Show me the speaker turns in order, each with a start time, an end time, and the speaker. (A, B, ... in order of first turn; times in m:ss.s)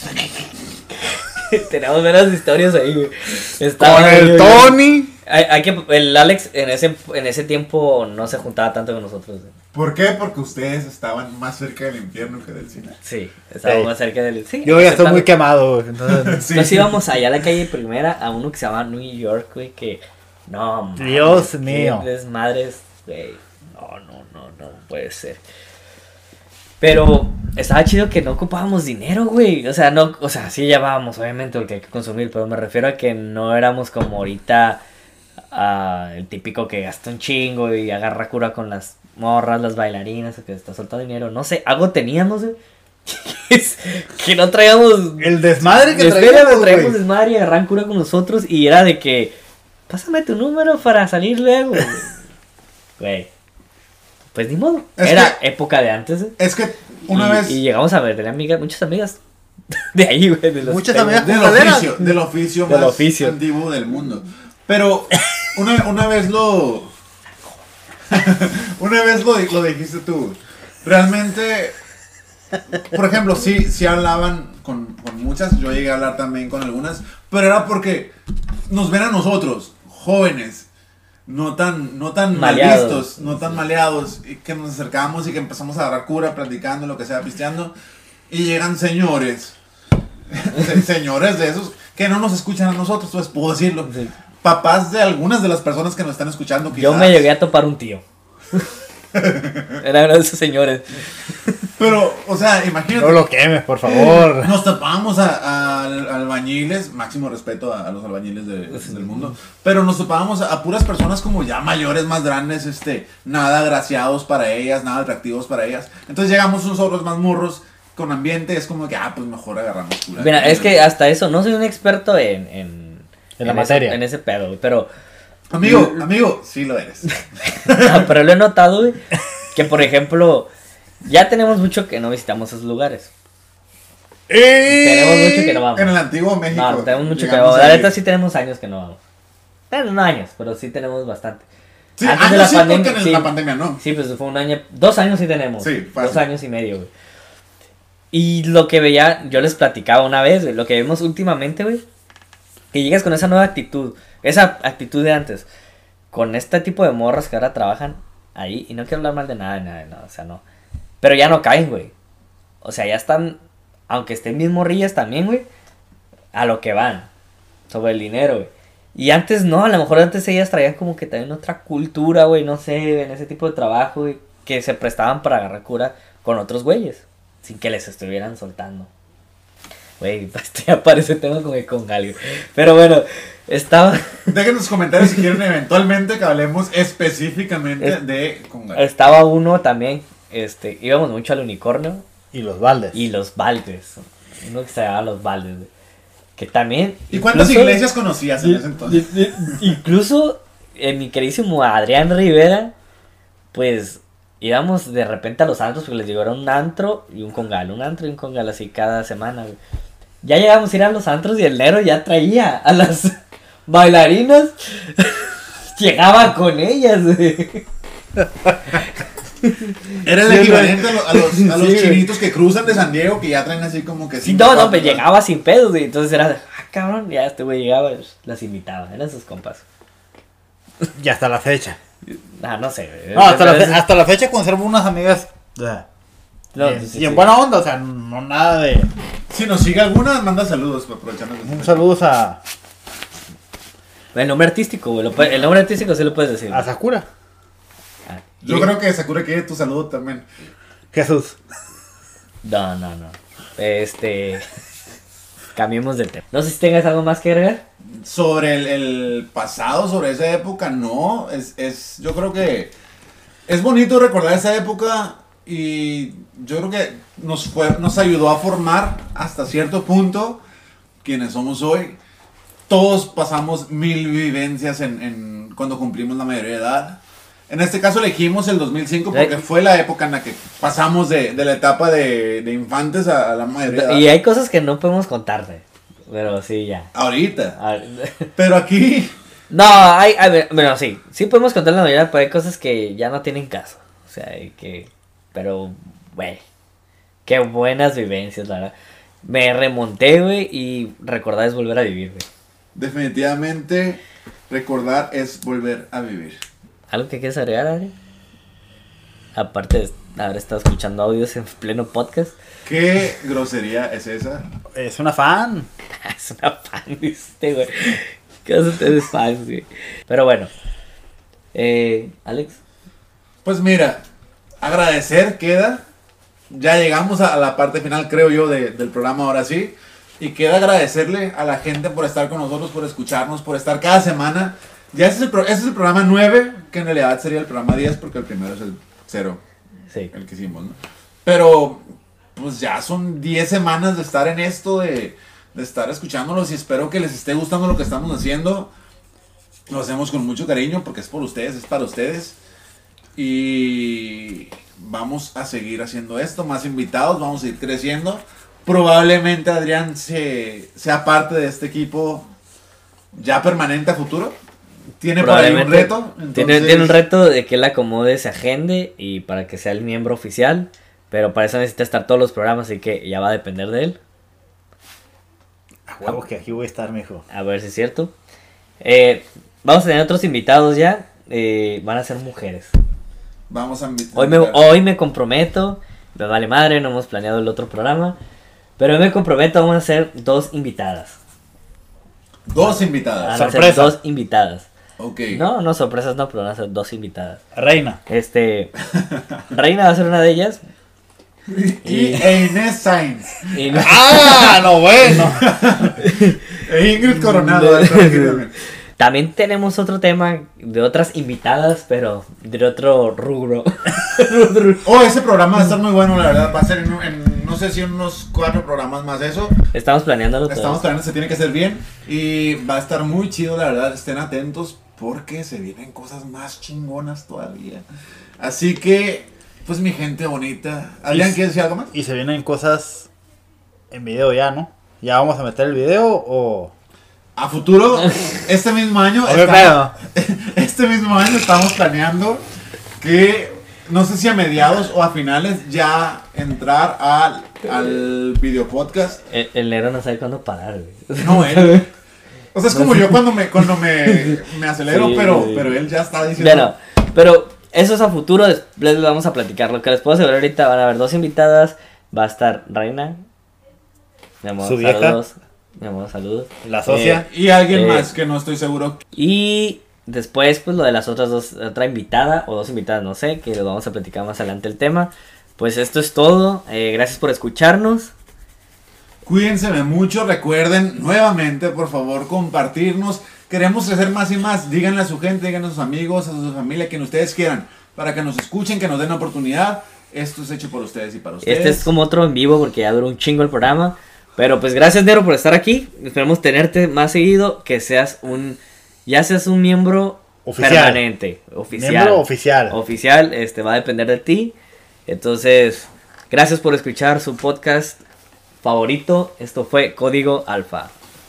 0:00.1-0:09.5 A
0:03.8-0:05.1 B
0:09.7-0:13.0 C
0:13.0-0:15.3 A
0:13.6-0:13.9 B
0:14.6-0:16.5 B
0:16.2-0:17.0 C
0:16.5-0:25.4 A
0:21.0-0:22.1 B
0:26.8-0:34.8 A
0:35.5-0:49.4 A
0:45.2-0:47.0 B
0:49.9-0:52.1 A
0:53.0-0:53.3 A
0:54.3-0:56.4 A
0:55.0-0:55.4 C
0:56.4-0:57.6 C
0:57.1-0:59.2 A
0:59.7-1:01.4 A
1:00.6-1:02.1 B
1:01.1-1:06.9 C
1:02.7-1:03.4 A
1:08.1-1:11.8 C
1:12.8-1:18.1 C
1:18.7-1:20.7 C
1:21.3-1:27.7 C
1:22.3-1:23.2 A
1:28.3-1:29.6 C
1:30.3-1:37.3 C
1:33.9-1:34.1 A
1:36.8-1:38.0 A
1:39.1-1:39.8 C
1:39.8-1:41.7 A
1:41.8-1:43.3 C
1:42.9-1:44.5 B
1:43.9-2:00.8 C
1:48.7-1:49.2 A
2:00.2-2:04.9 A
2:03.4-2:04.0 B
2:05.5-2:08.1 C
2:05.6-2:06.0 A
2:07.5-2:09.0 A
2:09.5-2:10.5 A
2:11.0-2:13.1 A
2:14.3-2:15.4 B
2:14.7-2:15.9 A
2:15.0-2:18.0 C
2:16.5-2:19.0 A
2:19.7-2:21.5 A
2:22.0-2:23.8 C
2:22.0-2:26.9 A
2:25.6-2:26.2 C
2:28.1-2:31.8 A
2:32.7-2:35.5 A
2:36.1-2:40.4 A
2:41.0-2:41.9 A
2:42.6-2:45.5 A
2:46.3-2:47.1 A
2:47.7-2:58.9 A
3:00.0-3:04.3 A
3:04.3-3:08.8 C
3:08.8-3:12.1 A
3:12.3-3:13.0 B
3:12.9-3:15.7 A
3:16.4-3:17.8 A
3:17.1-3:19.7 C
3:18.4-3:22.7 A
3:23.5-3:29.6 A
3:30.2-3:33.2 A
3:33.7-3:37.7 A
3:39.4-3:42.0 A
3:40.0-3:45.0 C
3:40.3-3:40.7 B
3:44.2-3:49.6 A
3:51.0-3:51.8 B
3:52.1-3:53.8 A
3:53.1-3:55.9 B
3:56.5-3:57.3 A
3:56.6-3:58.9 B
3:59.3-4:01.9 C
4:01.4-4:02.4 B
4:04.1-4:06.7 A
4:06.5-4:07.1 B
4:08.1-4:08.7 A
4:08.4-4:10.3 C
4:10.9-4:11.4 B
4:12.4-4:14.5 A
4:15.6-4:17.6 A
4:17.9-4:22.7 C
4:23.5-4:30.4 C
4:31.0-4:32.0 C
4:32.7-4:44.1 C
4:43.7-4:46.9 A
4:46.9-4:47.6 C
4:47.6-4:48.3 A
4:48.4-4:49.1 C
4:49.5-4:56.4 A
4:57.3-4:58.7 A
4:59.2-5:02.3 A
5:02.8-5:06.4 C
5:06.9-5:07.9 A
5:09.4-5:12.4 A
5:12.6-5:14.4 C
5:14.7-5:15.7 B
5:16.0-5:20.5 A
5:21.5-5:22.6 A
5:23.4-5:24.0 C
5:24.6-5:25.8 C
5:26.5-5:39.4 C
5:40.1-5:41.8 C
5:42.4-5:48.7 C
5:49.7-5:52.4 C
5:53.2-6:02.3 C
6:03.1-6:04.4 C
6:05.0-6:07.0 C
6:05.2-6:14.0 A
6:15.9-6:17.2 B
6:17.3-6:18.1 A
6:18.8-6:22.7 A
6:23.5-6:24.7 C
6:24.2-6:28.2 A
6:28.8-6:31.2 A
6:32.5-6:33.5 C
6:33.2-6:34.7 A
6:33.3-6:34.0 B
6:35.0-6:35.4 C
6:35.3-6:37.4 A
6:37.6-6:38.0 B
6:38.1-6:38.7 A
6:39.1-6:39.4 C
6:39.5-6:40.6 A
6:41.5-6:48.5 C
6:41.8-6:42.3 A
6:43.5-6:44.5 A
6:43.8-6:45.4 B
6:46.0-6:46.4 A
6:47.2-6:48.4 A
6:49.0-6:54.9 A
6:54.8-6:59.6 C
6:59.7-7:00.8 A
7:00.5-7:07.8 C
7:08.4-7:11.9 C
7:11.1-7:11.4 B
7:11.9-7:13.1 B
7:13.9-7:16.7 B
7:17.4-7:22.4 C
7:19.2-7:19.9 B
7:23.0-7:29.2 C
7:29.3-7:31.9 A
7:31.2-7:31.9 C
7:32.5-7:36.7 C
7:32.7-7:35.8 A
7:36.4-7:43.2 A
7:44.4-7:47.2 A
7:44.6-7:45.2 B
7:46.6-7:47.3 B
7:46.9-7:49.0 C
7:47.7-7:48.1 A
7:49.2-7:58.1 A
7:59.2-8:11.9 C
8:11.4-8:24.6 A
8:20.4-8:21.0 B
8:21.7-8:22.8 B
8:25.1-8:28.0 A
8:28.6-8:30.9 A